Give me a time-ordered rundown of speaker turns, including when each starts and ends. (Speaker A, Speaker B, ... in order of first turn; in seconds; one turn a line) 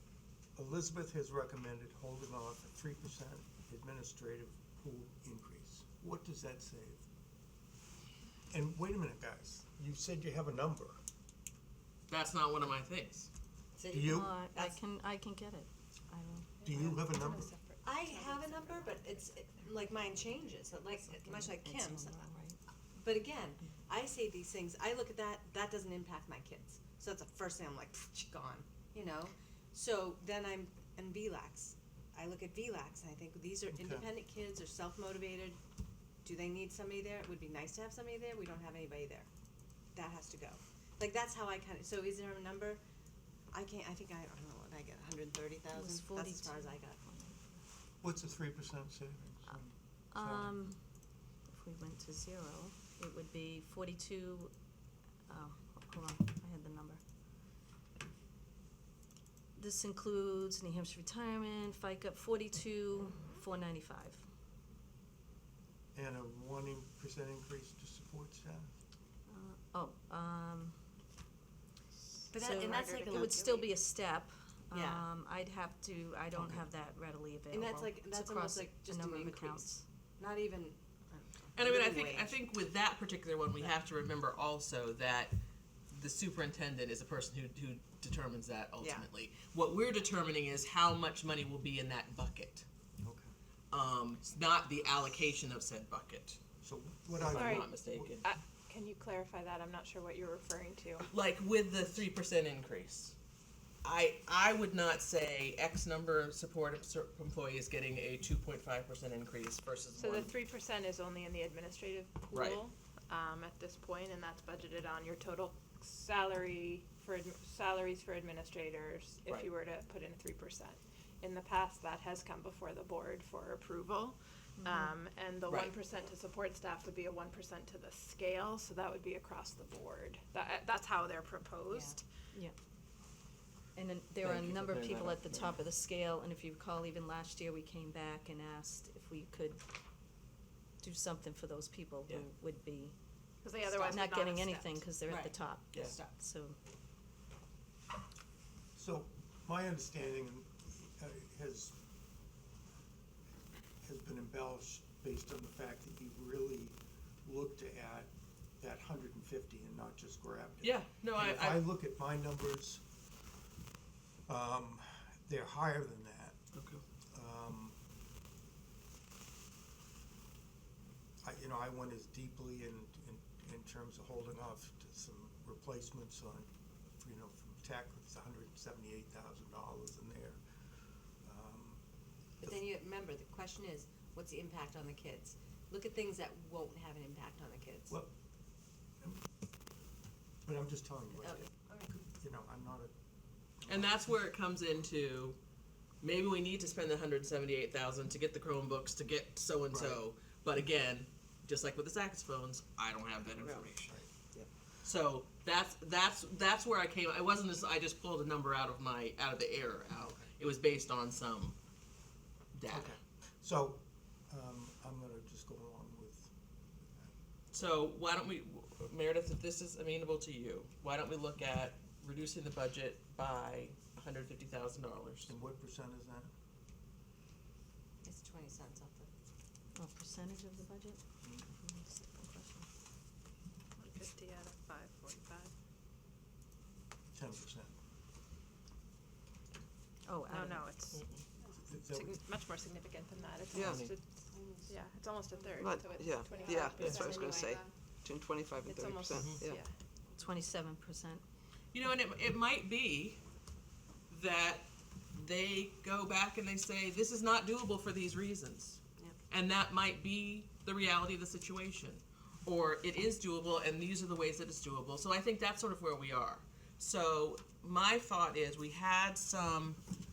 Speaker A: 0.6-7.0
Speaker A: 8.5-11.0
Speaker B: 12.1-13.3
Speaker C: 13.8-14.8
Speaker A: 13.9-14.3
Speaker D: 14.1-16.5
Speaker E: 16.6-19.8
Speaker A: 16.6-17.5
Speaker C: 17.8-22.2
Speaker D: 21.1-22.6
Speaker C: 22.9-35.6
Speaker A: 33.7-34.1
Speaker C: 36.2-39.3
Speaker C: 39.9-42.8
Speaker C: 43.5-47.0
Speaker D: 45.7-47.4
Speaker A: 48.0-50.5
Speaker D: 50.1-50.8
Speaker D: 51.5-54.5
Speaker D: 55.3-57.0
Speaker D: 59.5-64.2
Speaker A: 65.9-68.7
Speaker D: 69.3-70.8
Speaker C: 72.3-73.7
Speaker E: 72.3-73.6
Speaker D: 72.4-79.8
Speaker C: 74.7-75.0
Speaker C: 77.5-82.4
Speaker B: 81.5-85.3
Speaker B: 85.9-92.7
Speaker C: 88.8-89.1
Speaker A: 93.0-93.3
Speaker B: 93.7-96.4
Speaker A: 96.6-98.2
Speaker B: 97.2-98.2
Speaker E: 97.3-101.1
Speaker B: 101.1-103.2
Speaker B: 103.8-110.3
Speaker E: 110.0-132.0
Speaker B: 112.3-112.6
Speaker D: 124.6-125.0
Speaker B: 125.5-125.7
Speaker C: 131.7-132.0
Speaker D: 133.8-139.6
Speaker B: 134.2-135.6
Speaker D: 140.8-142.9
Speaker E: 143.4-144.9
Speaker D: 143.6-146.6
Speaker C: 145.1-146.1
Speaker A: 148.8-151.8
Speaker A: 153.8-162.8
Speaker B: 160.6-161.7
Speaker A: 164.3-166.4
Speaker B: 166.5-166.8
Speaker A: 167.1-167.8
Speaker A: 171.2-180.4
Speaker A: 181.2-181.8
Speaker C: 182.4-188.0
Speaker A: 190.4-192.9
Speaker C: 191.2-192.0
Speaker A: 193.6-194.0
Speaker B: 193.7-195.4
Speaker B: 196.0-204.0
Speaker A: 199.7-200.0
Speaker F: 203.4-203.7
Speaker A: 203.6-204.1
Speaker B: 204.8-211.6
Speaker A: 209.9-210.3
Speaker B: 212.5-213.0
Speaker A: 212.7-216.3
Speaker A: 216.8-217.1
Speaker B: 217.5-225.3
Speaker A: 225.3-226.3
Speaker C: 228.0-229.1
Speaker D: 229.7-231.0
Speaker D: 231.6-232.7
Speaker E: 233.8-235.5
Speaker A: 237.1-237.7
Speaker D: 240.1-240.7
Speaker E: 240.3-241.0
Speaker B: 240.9-241.2
Speaker A: 241.6-242.2
Speaker E: 241.9-244.0
Speaker F: 243.5-243.9
Speaker B: 243.6-243.9
Speaker E: 244.7-247.7
Speaker F: 245.6-249.6
Speaker B: 246.7-247.2
Speaker E: 248.6-249.7
Speaker B: 249.1-249.5
Speaker D: 250.1-251.2
Speaker B: 251.7-253.2
Speaker B: 254.1-269.8